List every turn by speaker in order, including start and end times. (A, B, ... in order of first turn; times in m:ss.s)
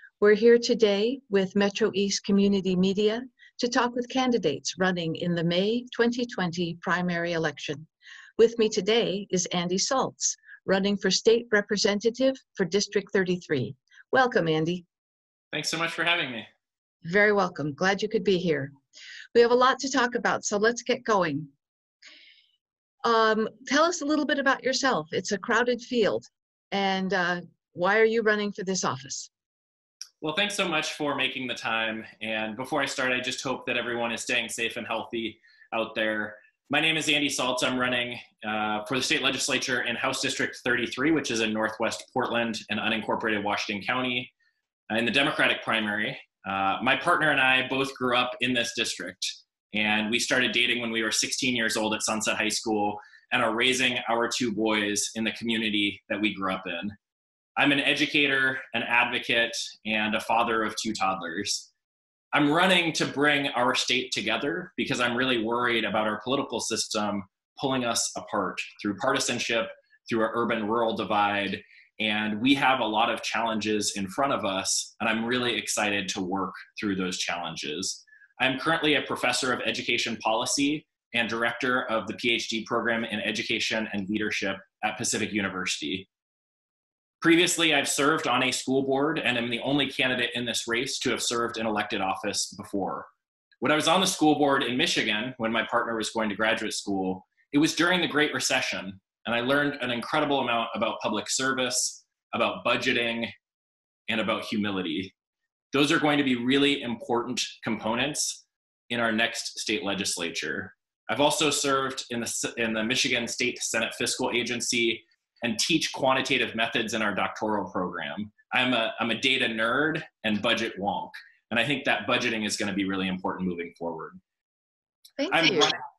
0:00.2-0:07.9 A
0:08.4-0:14.8 A
0:15.5-0:16.4 B
0:17.0-0:18.7 A
0:19.3-0:21.5 A
0:23.0-0:29.3 A
0:30.2-0:44.3 B
0:44.9-0:56.9 B
0:57.6-1:01.7 B
1:02.3-1:26.1 B
1:27.2-1:33.1 B
1:33.6-1:43.3 B
1:44.1-1:45.1 B
1:45.7-2:04.2 B
2:05.2-2:05.8 A
2:05.3-2:05.8 B